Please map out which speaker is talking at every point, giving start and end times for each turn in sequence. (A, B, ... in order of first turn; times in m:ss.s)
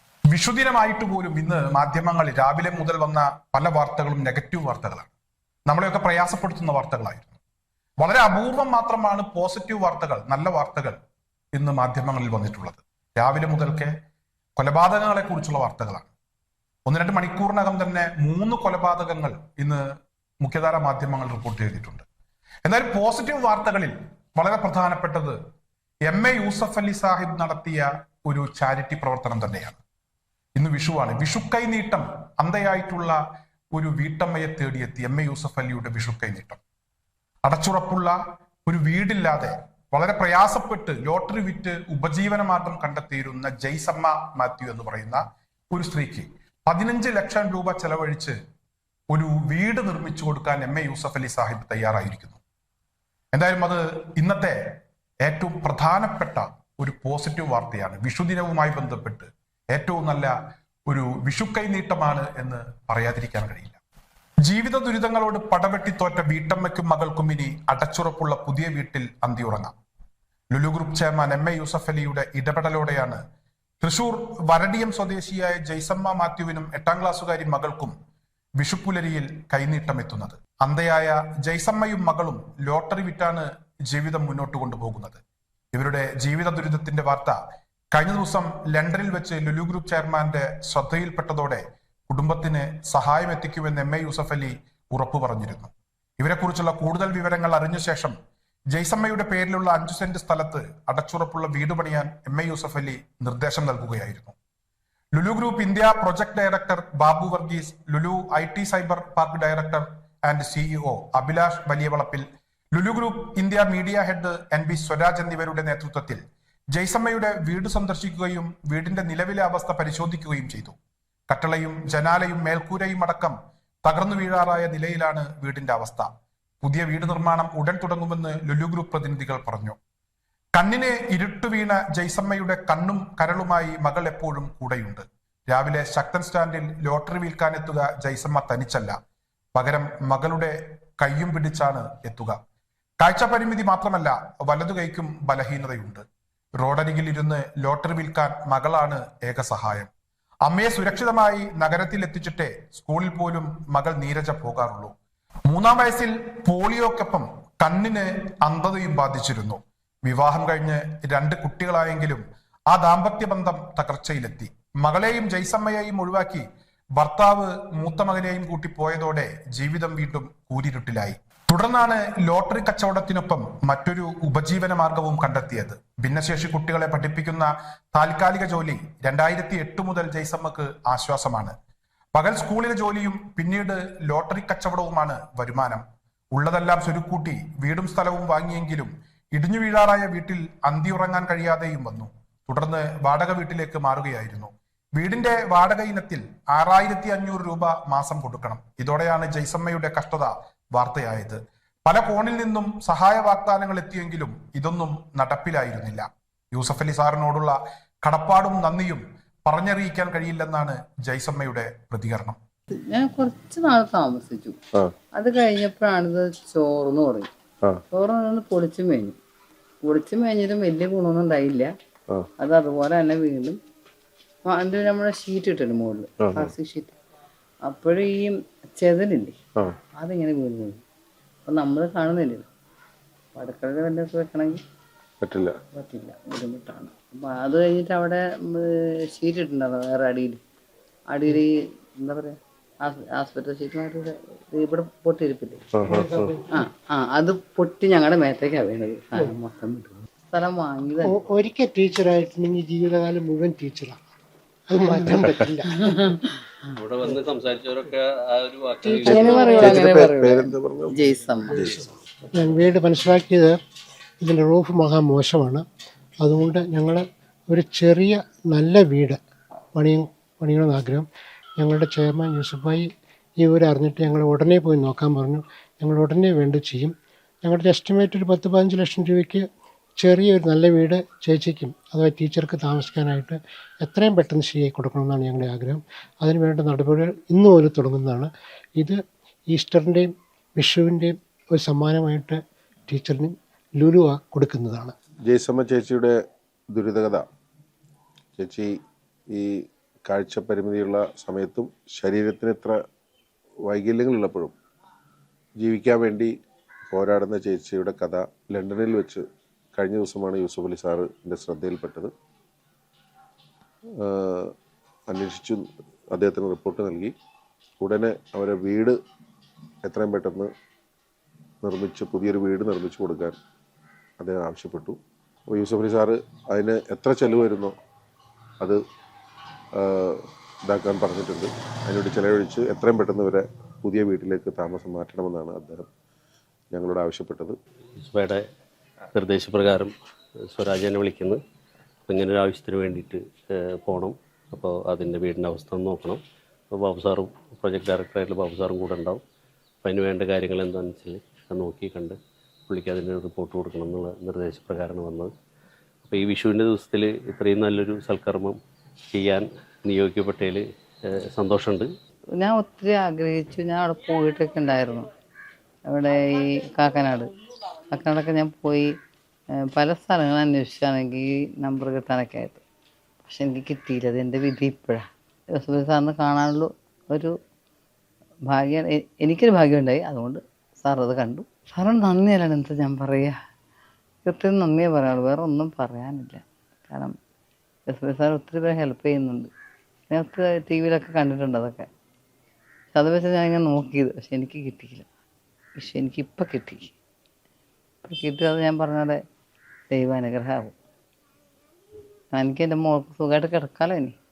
0:00.3-0:05.1 A
0:05.7-0:07.4 A
0:08.0-0:11.0 A
0:11.5-0:13.9 A
0:14.6-0:16.1 A
0:16.8-0:19.8 A
0:20.4-0:22.0 A
0:22.6-0:25.4 A
0:26.1-0:29.8 A
0:30.6-0:33.2 A
0:33.7-0:36.6 A
0:37.4-0:48.4 A
0:49.1-0:52.4 A
0:53.3-0:54.6 A
0:55.2-1:00.3 A
1:00.9-1:03.8 A
1:04.4-1:09.7 A
1:10.5-1:13.2 A
1:13.8-1:17.9 A
1:18.6-1:25.2 A
1:25.7-1:27.4 A
1:27.9-1:38.2 A
1:38.7-1:44.4 A
1:45.1-1:56.2 A
1:56.7-2:00.8 A
2:01.3-2:06.1 A
2:06.6-2:09.8 A
2:10.5-2:19.0 A
2:19.5-2:22.4 A
2:23.0-2:26.0 A
2:26.6-2:29.9 A
2:30.4-2:34.9 A
2:35.5-2:46.4 A
2:47.0-3:01.5 A
3:02.1-3:32.4 A
3:32.9-3:34.6 B
3:35.1-3:37.3 B
3:37.9-3:39.2 B
3:39.8-3:41.7 B
3:42.4-3:43.6 B
3:44.4-3:46.9 B
3:46.2-3:46.5 C
3:47.7-3:49.3 B
3:50.0-3:50.8 B
3:51.4-3:52.5 B
3:53.3-3:54.6 B
3:55.2-3:55.6 C
3:55.7-4:00.4 B
4:01.1-4:05.6 B
4:05.7-4:06.4 C
4:05.9-4:06.4 D
4:06.5-4:11.2 B
4:11.0-4:14.0 D
4:14.7-4:16.1 D
4:15.8-4:16.2 B
4:16.8-4:19.8 E
4:18.8-4:19.6 D
4:19.0-4:21.0 C
4:19.0-4:21.6 B
4:21.5-4:21.8 C
4:22.3-4:23.6 D
4:24.2-4:25.6 D
4:26.2-4:29.2 D
4:29.7-4:31.1 D
4:31.6-4:32.9 D
4:33.4-4:39.5 D
4:40.0-4:49.0 D
4:49.5-4:54.9 D
4:55.2-4:56.2 C
4:56.7-4:57.3 C
4:58.4-4:58.7 C
4:59.3-4:59.5 C
5:00.0-5:02.8 C
5:03.6-5:04.5 C
5:05.6-5:06.3 C
5:06.9-5:12.1 C
5:14.0-5:14.5 C
5:15.1-5:17.1 C
5:17.8-5:19.0 C
5:19.8-5:20.5 C
5:21.6-5:23.4 C
5:24.2-5:25.0 C
5:25.5-5:27.7 C
5:29.7-5:35.9 C
5:36.7-5:37.6 C
5:38.0-5:38.4 E
5:39.1-5:39.9 E
5:40.5-5:41.4 E
5:42.1-5:46.2 E
5:46.7-5:49.2 E
5:49.8-5:52.2 E
5:52.7-5:55.3 E
5:56.0-5:58.6 E
5:59.1-6:00.6 E
6:01.3-6:01.9 E
6:02.4-6:05.1 B
6:05.9-6:07.3 B
6:07.9-6:08.9 B
6:09.7-6:12.6 B
6:13.2-6:17.3 B
6:18.5-6:23.3 B
6:24.2-6:27.1 B
6:27.9-6:29.5 B
6:30.1-6:31.9 B
6:32.9-6:35.0 B
6:35.8-6:36.9 B
6:38.0-6:39.2 B
6:39.9-6:40.8 B
6:42.3-6:44.1 B